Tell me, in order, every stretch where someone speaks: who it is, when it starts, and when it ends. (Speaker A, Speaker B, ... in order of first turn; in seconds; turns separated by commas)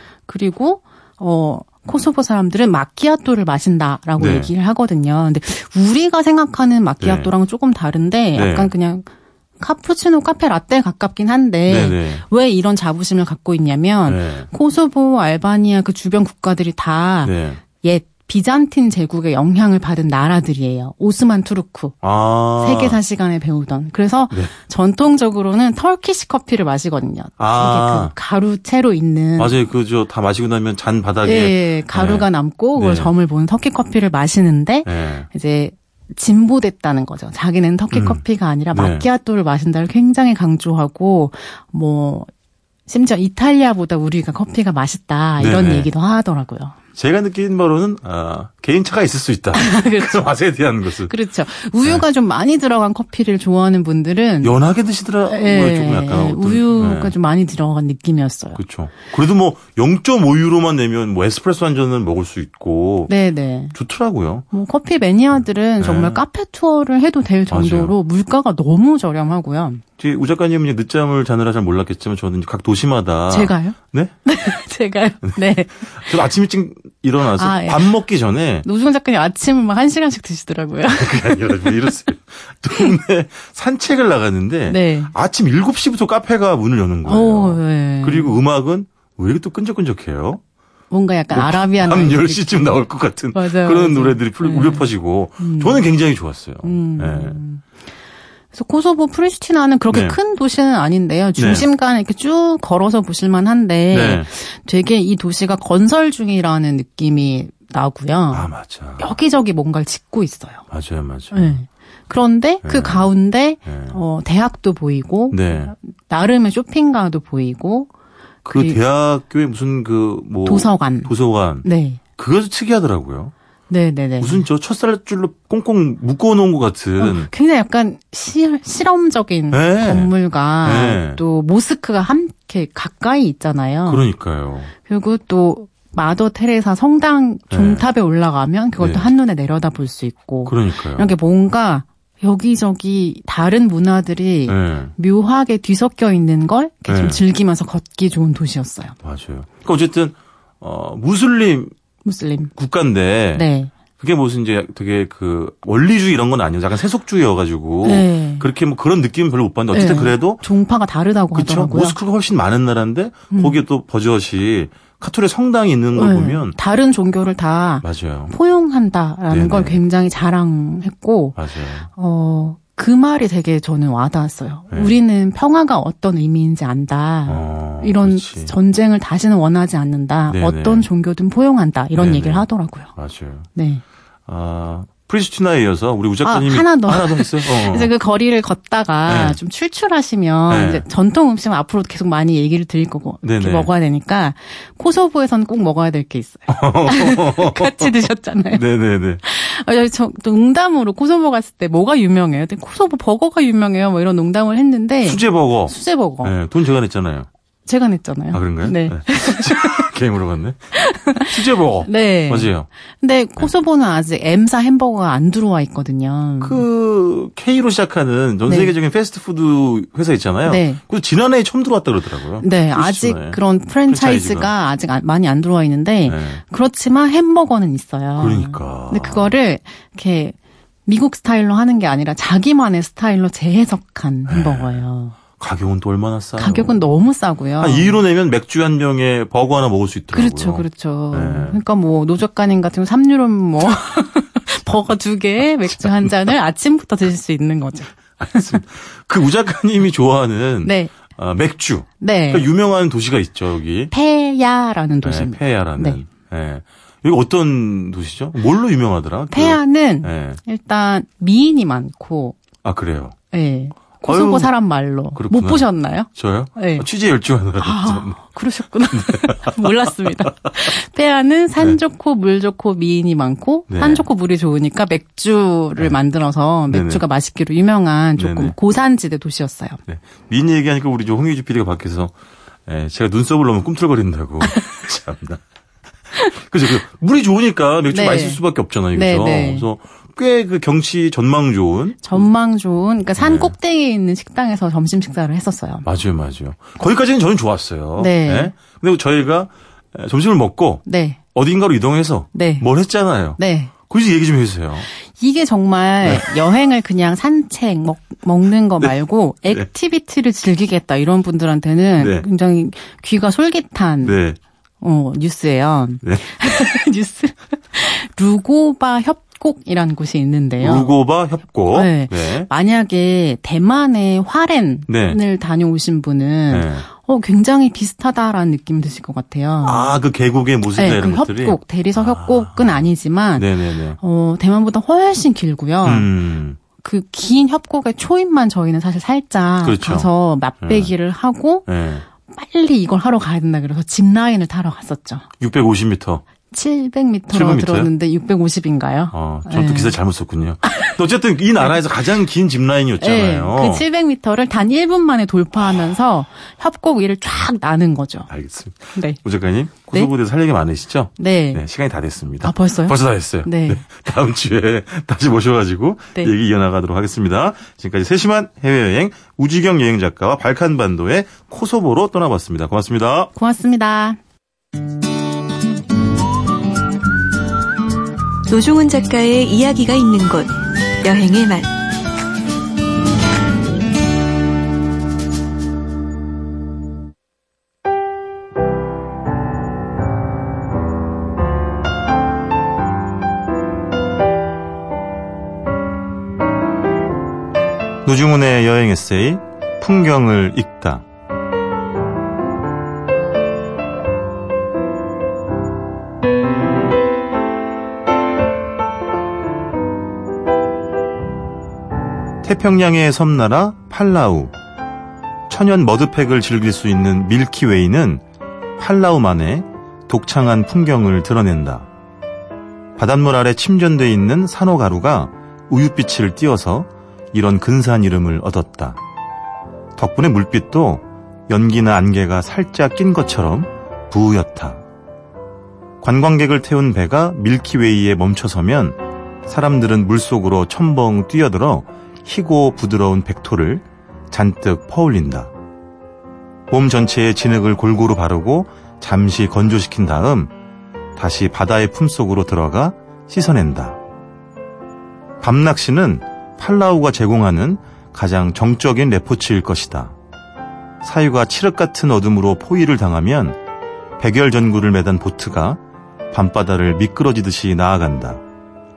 Speaker A: 0.3-9.1, Speaker B: 4.2-4.5, Speaker B: 7.0-7.3, Speaker B: 8.3-8.7, Speaker A: 9.6-22.0, Speaker B: 11.7-12.2, Speaker B: 14.1-14.5, Speaker B: 17.2-17.6, Speaker B: 22.0-23.0, Speaker A: 22.6-29.6, Speaker B: 27.4-28.1, Speaker B: 29.4-33.1, Speaker A: 31.2-42.3, Speaker B: 34.9-35.3, Speaker B: 37.9-39.0, Speaker A: 42.9-46.8, Speaker B: 45.4-45.9, Speaker B: 47.0-51.1, Speaker A: 49.5-50.3, Speaker A: 51.1-54.5, Speaker B: 54.4-57.1, Speaker A: 55.3-58.6, Speaker B: 58.6-63.1, Speaker A: 63.1-63.8, Speaker B: 63.7-64.5, Speaker A: 64.5-69.8, Speaker B: 65.8-66.2, Speaker B: 67.5-67.9, Speaker B: 70.0-74.2, Speaker A: 73.3-76.2, Speaker B: 75.2-78.7, Speaker A: 77.3-78.0, Speaker A: 78.6-81.7, Speaker B: 80.9-90.4, Speaker A: 84.7-85.1, Speaker A: 87.1-88.4, Speaker A: 90.9-92.8, Speaker B: 91.3-97.4, Speaker A: 93.3-94.9, Speaker A: 95.4-95.8, Speaker A: 96.6-97.6, Speaker A: 98.5-110.6, Speaker B: 99.9-100.2, Speaker B: 101.4-101.7, Speaker B: 103.9-104.3, Speaker B: 108.3-109.1, Speaker B: 110.7-111.6, Speaker A: 111.3-117.9, Speaker B: 112.6-113.1, Speaker B: 113.6-114.0, Speaker B: 115.3-115.7, Speaker B: 118.5-121.7, Speaker A: 118.5-118.8, Speaker A: 120.5-121.1, Speaker A: 121.6-122.0, Speaker B: 122.2-123.3, Speaker A: 123.7-124.5, Speaker B: 124.2-127.3, Speaker A: 127.0-134.1, Speaker B: 129.5-131.2, Speaker B: 133.9-134.7, Speaker A: 134.8-149.0, Speaker B: 137.5-137.8, Speaker B: 138.8-139.1, Speaker B: 140.5-141.1, Speaker B: 144.5-144.9, Speaker B: 146.9-147.2, Speaker B: 149.0-151.7, Speaker A: 152.1-152.5, Speaker B: 152.6-153.5, Speaker A: 153.3-153.7, Speaker B: 154.0-160.4, Speaker A: 157.8-158.5, Speaker A: 159.7-162.0, Speaker B: 161.3-166.6, Speaker A: 163.3-163.6, Speaker A: 165.9-171.4, Speaker B: 167.8-168.3, Speaker B: 169.3-169.8, Speaker B: 171.4-171.9, Speaker A: 171.9-182.9, Speaker B: 174.7-174.9, Speaker B: 177.3-178.5, Speaker B: 180.3-180.9, Speaker B: 181.9-183.5, Speaker A: 183.6-183.8, Speaker B: 184.3-187.9, Speaker A: 186.2-198.6, Speaker B: 189.1-189.4, Speaker B: 190.5-190.8, Speaker B: 193.2-193.7, Speaker B: 196.5-197.9, Speaker B: 198.5-199.2, Speaker A: 199.2-206.3, Speaker B: 205.1-207.3, Speaker A: 207.7-209.9, Speaker B: 208.3-212.7, Speaker A: 210.8-216.6, Speaker B: 216.4-224.5, Speaker A: 218.5-218.7, Speaker A: 220.4-220.8, Speaker A: 222.4-230.3, Speaker B: 226.1-226.4, Speaker B: 228.2-229.3, Speaker A: 230.9-235.2, Speaker B: 234.3-234.7, Speaker B: 235.4-236.8, Speaker A: 236.4-238.0, Speaker B: 237.6-241.6, Speaker A: 240.1-248.6, Speaker B: 248.2-253.9, Speaker A: 250.6-250.9, Speaker A: 252.0-252.5, Speaker A: 253.9-256.0, Speaker B: 255.0-260.4, Speaker A: 259.3-262.4, Speaker B: 262.6-263.2, Speaker A: 263.3-266.9, Speaker B: 264.0-264.5, Speaker B: 265.1-268.2, Speaker A: 267.6-279.8, Speaker B: 268.9-270.1, Speaker B: 273.7-274.1, Speaker B: 276.7-277.1, Speaker B: 278.2-278.6, Speaker B: 279.9-282.1, Speaker B: 282.7-285.4, Speaker B: 286.3-292.3, Speaker A: 287.9-289.7, Speaker A: 292.0-295.9, Speaker B: 293.2-293.5, Speaker B: 295.8-300.8, Speaker A: 298.0-298.5, Speaker A: 300.9-301.2, Speaker B: 301.3-304.9, Speaker A: 302.3-302.7, Speaker A: 303.4-303.7, Speaker A: 304.9-314.2, Speaker B: 312.0-312.2, Speaker B: 314.0-314.4, Speaker A: 314.8-320.9, Speaker B: 320.6-322.5, Speaker A: 321.7-329.9, Speaker B: 324.9-325.2, Speaker B: 326.5-326.9, Speaker B: 329.6-334.0, Speaker A: 330.7-336.1, Speaker B: 335.8-336.6, Speaker A: 336.8-341.6, Speaker B: 339.6-340.1, Speaker B: 340.6-340.9, Speaker B: 341.7-342.1, Speaker A: 342.2-345.2, Speaker B: 345.4-346.2, Speaker A: 346.5-350.0, Speaker B: 347.3-347.9, Speaker B: 349.1-353.9, Speaker A: 350.6-350.9, Speaker A: 353.0-358.3, Speaker B: 358.3-373.3, Speaker A: 361.2-361.6, Speaker A: 362.4-363.8, Speaker A: 373.4-374.2, Speaker C: 378.5-381.7, Speaker B: 398.1-401.1, Speaker B: 412.4-414.5, Speaker B: 415.5-418.2, Speaker B: 418.8-421.9, Speaker B: 423.0-429.0, Speaker B: 430.0-434.8, Speaker B: 436.0-445.5, Speaker B: 446.7-450.5, Speaker B: 451.2-454.0, Speaker B: 455.4-460.1, Speaker B: 461.0-463.6, Speaker B: 464.2-465.8, Speaker B: 466.3-468.4